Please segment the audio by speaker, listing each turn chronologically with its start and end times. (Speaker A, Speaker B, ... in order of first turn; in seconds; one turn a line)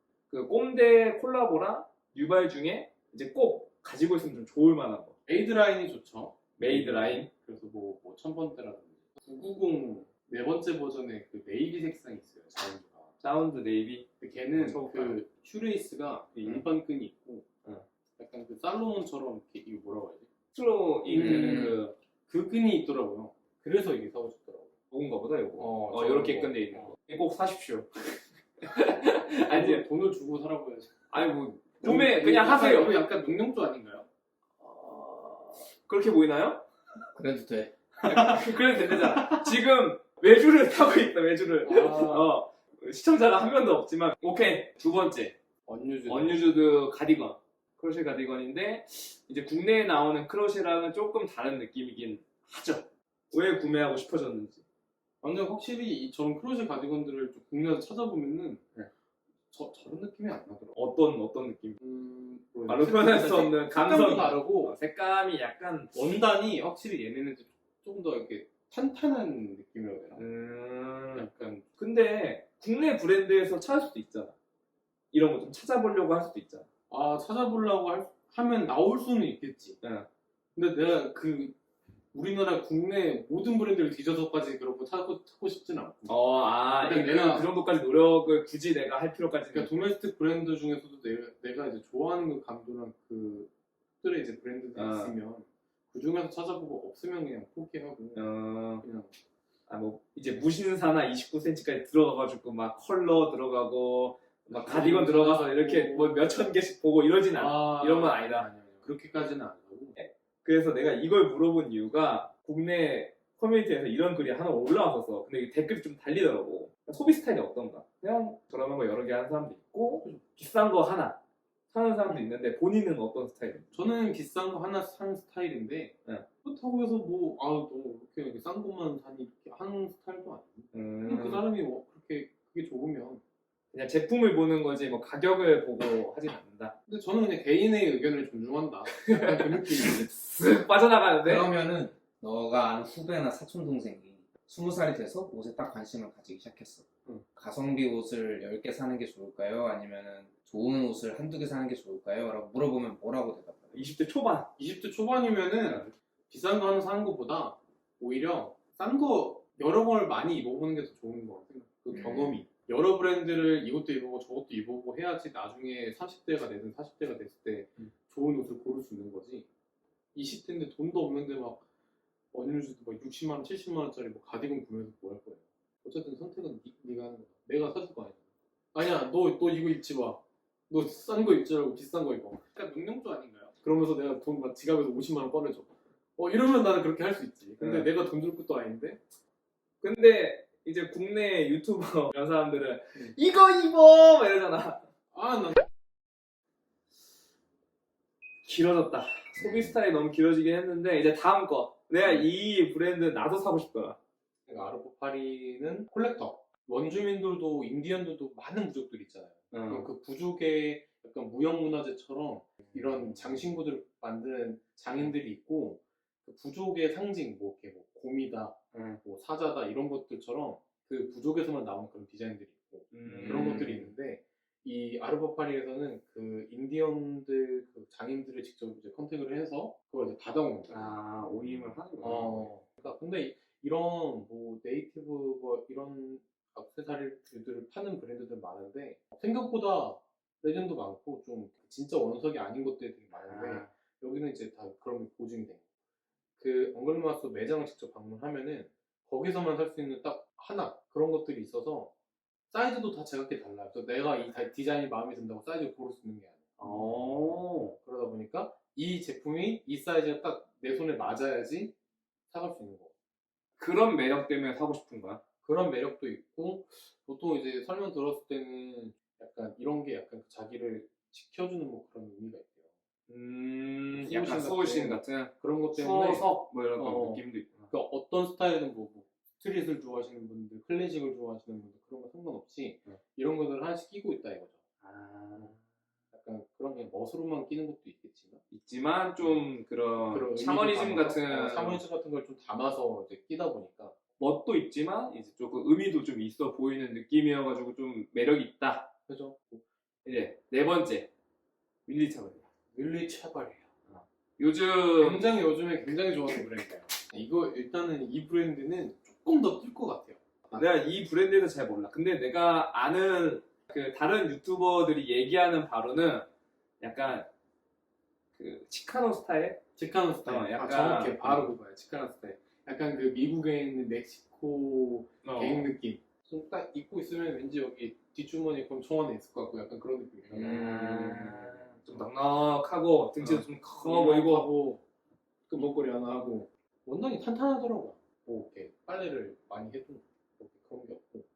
Speaker A: 0.3-5.2
Speaker B: 5.3-13.1
Speaker A: 6.6-7.3
Speaker A: 13.2-15.2
Speaker B: 14.2-17.5
Speaker A: 16.4-16.6
Speaker B: 18.2-20.3
Speaker A: 20.5-21.9
Speaker B: 21.1-24.7
Speaker A: 24.9-29.9
Speaker B: 25.6-26.9
Speaker B: 29.4-34.1
Speaker A: 31.1-33.0
Speaker A: 34.6-36.6
Speaker C: 37.1-37.7
Speaker B: 38.0-39.4
Speaker A: 38.0-45.4
Speaker B: 41.6-42.4
Speaker B: 45.7-46.5
Speaker A: 46.1-54.6
Speaker B: 55.2-58.7
Speaker B: 59.5-60.8
Speaker A: 60.8-61.8
Speaker B: 61.8-64.8
Speaker A: 62.7-65.9
Speaker B: 65.9-70.3
Speaker A: 70.2-74.4
Speaker B: 71.1-71.7
Speaker A: 75.1-76.7
Speaker B: 76.9-79.8
Speaker A: 79.8-80.1
Speaker B: 80.6-81.5
Speaker B: 82.1-87.5
Speaker A: 86.1-89.7
Speaker B: 89.5-93.5
Speaker B: 94.0-99.1
Speaker A: 94.8-95.2
Speaker A: 98.2-98.8
Speaker A: 99.7-108.5
Speaker B: 104.5-106.3
Speaker B: 107.3-110.0
Speaker A: 110.0-121.2
Speaker A: 121.7-123.7
Speaker B: 122.1-122.3
Speaker B: 123.7-133.2
Speaker A: 130.7-131.4
Speaker A: 133.7-136.8
Speaker B: 136.9-140.1
Speaker A: 139.0-141.5
Speaker C: 141.2-153.8
Speaker A: 153.7-154.5
Speaker B: 154.6-169.5
Speaker A: 155.6-155.9
Speaker C: 161.9-162.4
Speaker B: 170.2-171.6
Speaker B: 172.3-178.2
Speaker B: 178.7-189.0
Speaker A: 187.6-187.9
Speaker A: 189.8-194.9
Speaker B: 195.1-195.6
Speaker A: 198.4-204.0
Speaker B: 204.5-231.0
Speaker A: 209.5-209.9
Speaker A: 218.7-219.0
Speaker A: 222.9-223.9
Speaker A: 230.7-232.6
Speaker B: 232.0-245.6
Speaker A: 243.2-243.7
Speaker B: 246.4-251.9
Speaker B: 252.5-261.8
Speaker A: 256.6-257.8
Speaker B: 262.3-262.9
Speaker A: 263.6-265.2
Speaker B: 265.4-272.7
Speaker A: 273.1-277.7
Speaker B: 273.9-284.6
Speaker A: 284.8-285.6
Speaker B: 286.1-288.4
Speaker A: 288.5-291.8
Speaker B: 289.2-289.5
Speaker B: 290.0-293.9
Speaker A: 294.2-298.9
Speaker B: 299.1-299.6
Speaker A: 300.1-301.1
Speaker A: 301.9-302.5
Speaker B: 302.7-303.7
Speaker A: 303.9-305.3
Speaker B: 305.0-310.6
Speaker A: 310.5-316.3
Speaker A: 316.8-317.3
Speaker A: 318.4-319.6
Speaker B: 319.8-331.4
Speaker A: 320.2-321.5
Speaker A: 325.2-325.7
Speaker A: 330.3-334.5
Speaker C: 330.5-331.6
Speaker B: 333.2-334.8
Speaker B: 335.5-341.3